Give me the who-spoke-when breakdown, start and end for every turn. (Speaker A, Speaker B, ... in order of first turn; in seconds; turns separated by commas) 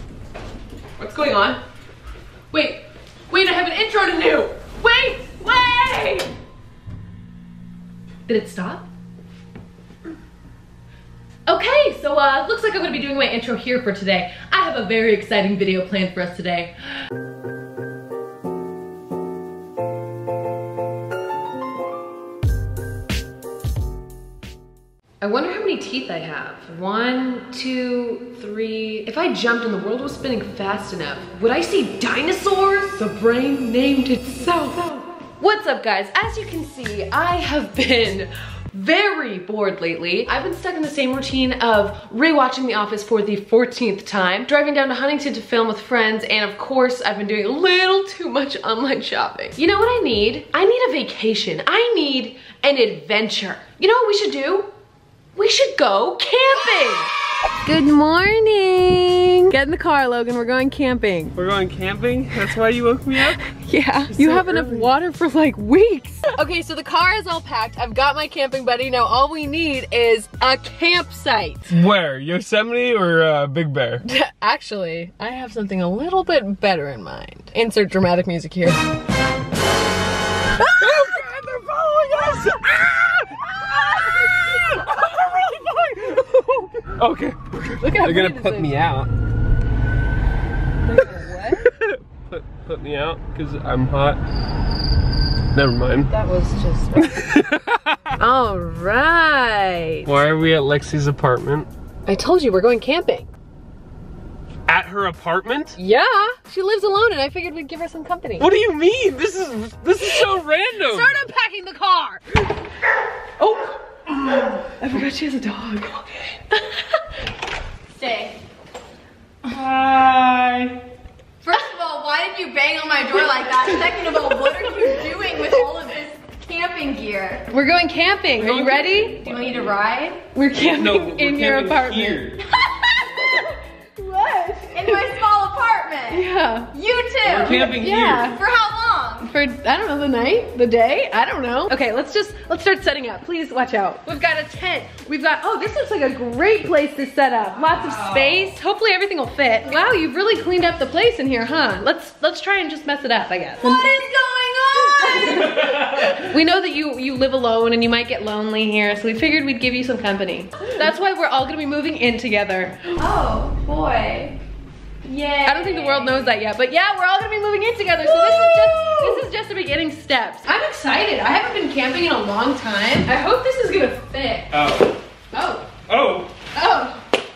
Speaker A: 1.0-1.6, Speaker A: 2.5-6.3, Speaker A: 8.3-8.9, Speaker A: 11.5-16.7, Speaker A: 25.2-54.7, Speaker A: 55.3-57.1, Speaker A: 57.6-61.4, Speaker B: 61.3-63.4, Speaker A: 63.4-71.7, Speaker B: 64.2-64.9, Speaker B: 71.7-74.0, Speaker A: 74.0-78.8, Speaker B: 80.7-89.1, Speaker A: 80.8-82.4, Speaker A: 83.7-84.3, Speaker A: 87.8-88.7, Speaker A: 90.8-91.7, Speaker B: 91.6-94.2, Speaker B: 95.5-96.1, Speaker A: 96.1-97.2, Speaker B: 97.0-98.1, Speaker A: 98.2-100.1, Speaker B: 100.0-101.7, Speaker A: 102.0-103.3, Speaker B: 104.7-105.8, Speaker A: 105.8-108.5, Speaker B: 108.4-111.2, Speaker A: 110.0-110.3, Speaker A: 110.8-112.5, Speaker A: 113.4-113.8, Speaker B: 114.1-114.6, Speaker A: 114.7-117.0, Speaker C: 117.9-118.4, Speaker B: 119.4-120.8, Speaker C: 121.4-127.5, Speaker A: 127.5-129.3, Speaker B: 128.4-129.7, Speaker C: 129.2-130.2, Speaker A: 130.3-135.1, Speaker B: 130.6-132.4, Speaker C: 134.7-139.3, Speaker A: 136.1-136.7, Speaker B: 137.2-138.4, Speaker A: 137.4-138.4, Speaker A: 139.2-153.9, Speaker B: 147.9-148.3, Speaker C: 153.6-155.8, Speaker A: 154.9-162.8, Speaker B: 155.3-156.2, Speaker C: 163.0-164.4, Speaker C: 165.0-166.3, Speaker A: 165.4-174.5, Speaker C: 168.1-169.2, Speaker B: 174.5-174.9, Speaker A: 175.3-175.7, Speaker B: 175.9-176.3, Speaker A: 176.5-177.0